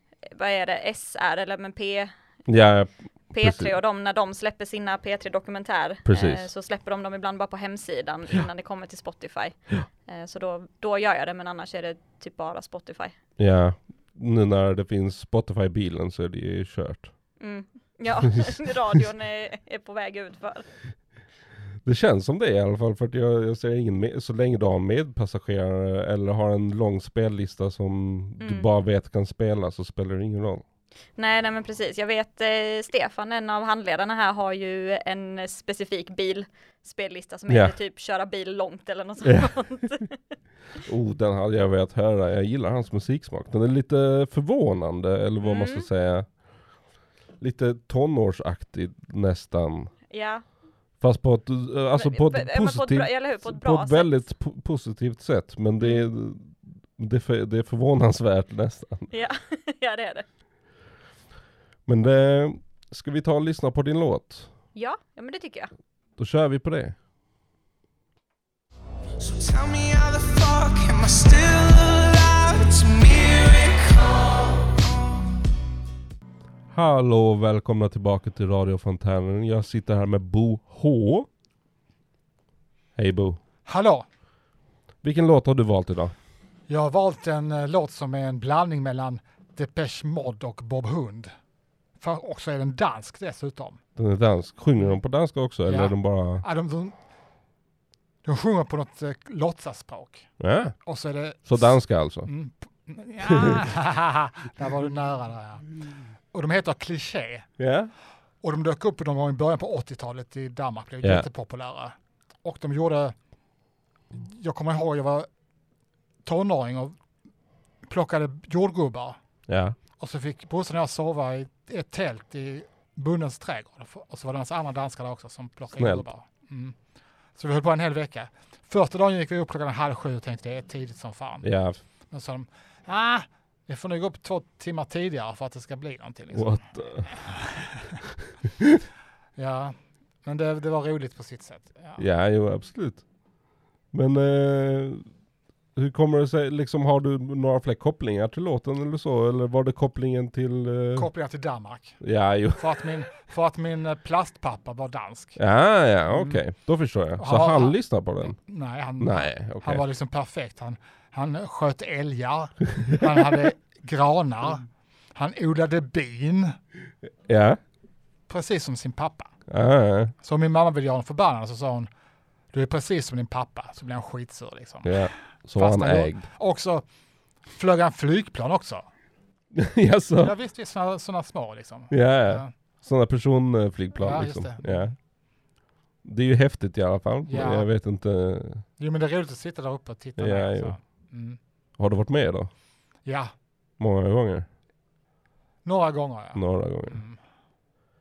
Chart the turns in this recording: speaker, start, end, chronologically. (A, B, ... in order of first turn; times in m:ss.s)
0:00.2-0:02.7 A
0:02.5-0:03.7 B
0:03.3-0:13.1 A
0:06.0-0:06.5 B
0:13.4-0:17.1 B
0:17.4-0:20.6 A
0:21.8-0:30.6 B
0:28.4-0:28.7 A
0:31.2-0:40.1 A
0:37.5-0:37.7 B
0:39.2-0:39.5 B
0:40.8-0:46.8 B
0:45.4-0:45.9 A
0:47.4-0:49.9 B
0:50.1-0:50.4 A
0:51.0-0:59.1 B
0:52.0-0:54.2 A
0:55.8-0:56.0 A
0:59.1-1:00.2 A
1:01.8-1:04.5 B
1:04.7-1:05.7 A
1:06.2-1:07.0 B
1:09.2-1:14.8 C
1:16.7-1:21.3 B
1:23.0-1:23.4 B
1:23.6-1:24.0 D
1:25.0-1:26.1 B
1:26.7-1:31.3 D
1:32.0-1:33.8 D
1:34.0-1:36.4 B
1:35.6-1:37.0 D
1:38.2-1:45.8 D
1:40.4-1:40.8 B
1:41.4-1:42.3 B
1:43.3-1:43.6 B
1:46.3-1:47.5 D
1:47.6-1:47.9 B
1:48.4-1:53.1 D
1:51.0-1:51.3 B
1:54.1-1:55.3 D
1:56.2-1:57.0 D
1:57.8-1:59.2 D
1:59.5-1:59.8 B
2:00.0-2:06.8 D
2:05.8-2:06.1 B
2:07.3-2:11.5 D
2:11.4-2:11.8 B
2:12.1-2:18.0 D
2:16.3-2:17.1 B
2:19.4-2:22.0 D
2:22.0-2:23.0 B
2:23.9-2:25.1 B
2:25.8-2:31.1 B
2:30.9-2:36.5 D
2:32.0-2:32.9 B
2:35.4-2:38.4 B
2:37.2-2:46.6 D
2:39.0-2:39.8 B
2:43.0-2:43.4 B
2:47.3-2:47.6 B
2:48.3-2:49.4 D
2:49.5-2:50.1 B
2:50.2-2:51.9 D
2:52.5-2:56.8 D
2:54.8-2:56.2 B
2:57.5-2:58.8 D
2:59.5-3:00.4 B
3:00.2-3:02.5 D
3:01.9-3:04.9 B
3:04.0-3:05.0 D
3:06.0-3:08.6 B
3:07.3-3:07.7 D
3:08.8-3:11.4 D
3:10.2-3:10.8 B
3:11.8-3:12.5 B
3:13.0-3:13.3 D
3:13.8-3:14.4 B
3:15.6-3:17.2 D
3:16.3-3:17.0 B